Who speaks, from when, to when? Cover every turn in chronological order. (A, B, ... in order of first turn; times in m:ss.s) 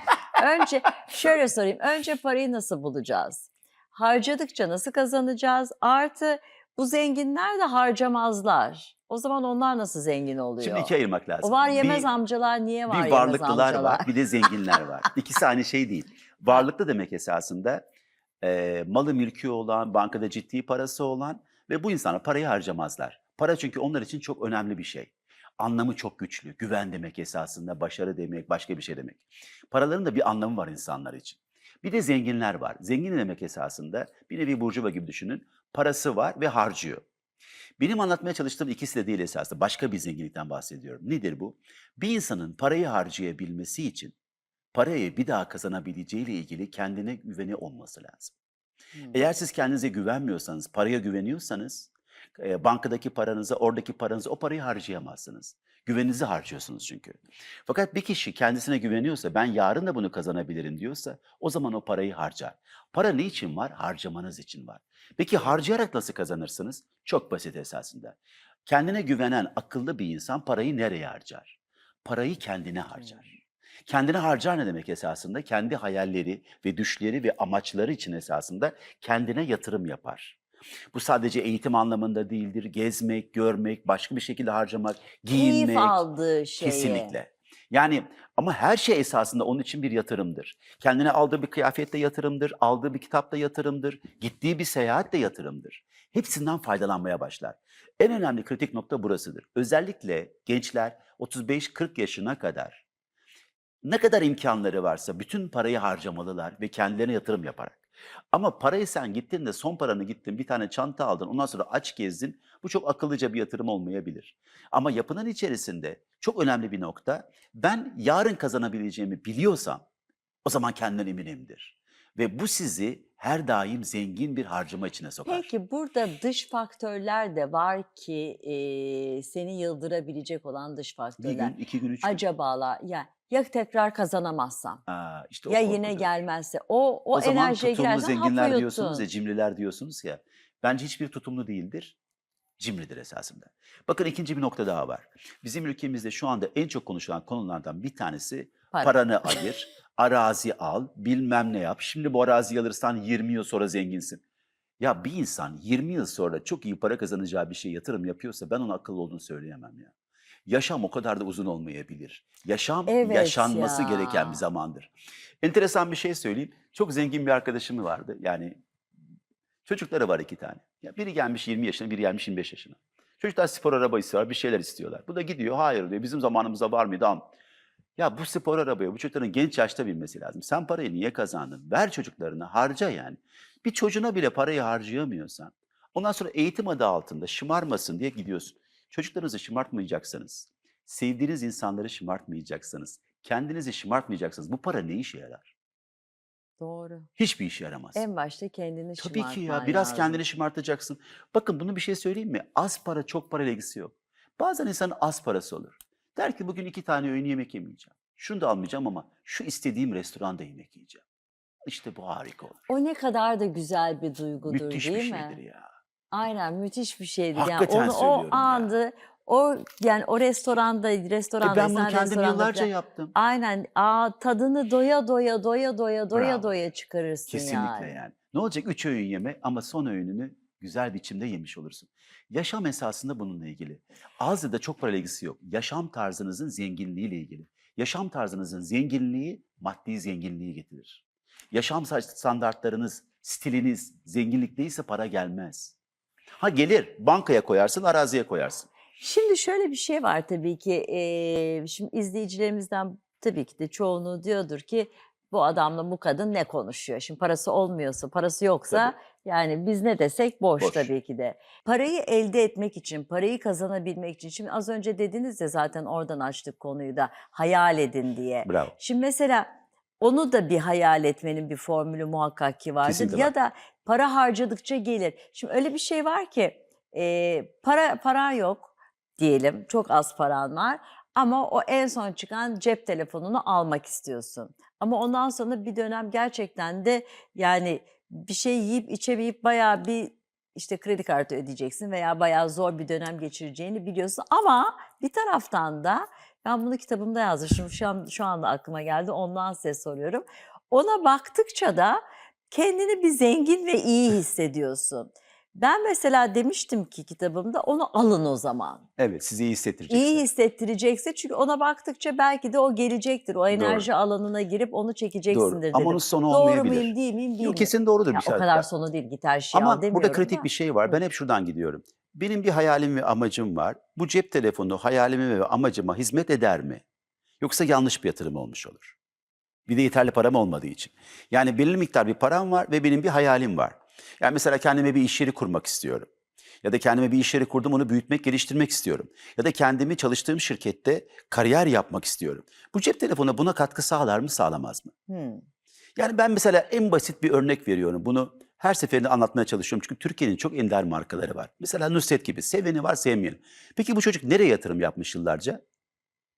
0:00.3-0:14.1 A
0:10.6-0:12.1 B
0:12.9-0:17.9 B
0:18.4-0:37.0 B
0:37.8-0:44.1 B
0:44.7-0:48.4 B
0:49.1-1:13.4 B
1:13.9-1:20.4 B
1:20.9-1:26.0 B
1:25.3-1:27.2 A
1:26.6-1:42.8 B
1:43.8-1:47.8 B
1:48.3-1:59.8 B
2:00.4-2:05.5 B
2:05.3-2:14.8 A
2:11.2-2:12.2 B
2:14.9-2:16.2 B
2:15.5-2:19.0 A
2:17.1-2:22.0 B
2:22.6-2:34.2 B
2:34.8-2:39.9 B
2:40.5-2:44.9 B
2:42.9-2:44.4 A
2:45.4-2:48.6 B
2:49.7-2:57.3 B
2:58.0-3:15.5 B
3:16.6-3:17.1 A
3:17.2-3:18.1 B
3:18.0-3:20.2 A
3:19.0-3:31.0 B
3:31.7-3:32.6 B
3:32.7-3:35.4 A
3:34.5-3:35.7 B
3:36.1-3:48.0 A
3:37.4-3:38.7 B
3:41.4-3:43.1 B
3:46.1-3:46.5 B
3:47.3-4:05.8 B
4:06.4-4:08.7 B
4:09.0-5:08.8 A
4:20.6-4:20.9 B
4:28.4-4:28.7 B
4:32.8-4:33.3 B
5:09.0-5:10.2 B
5:09.9-5:21.0 A
5:13.5-5:13.9 B
5:15.3-5:18.7 B
5:19.5-5:26.8 B
5:27.4-5:28.9 B
5:29.7-5:36.1 B
5:36.6-5:44.9 B
5:45.1-5:45.4 A
5:46.0-5:55.6 B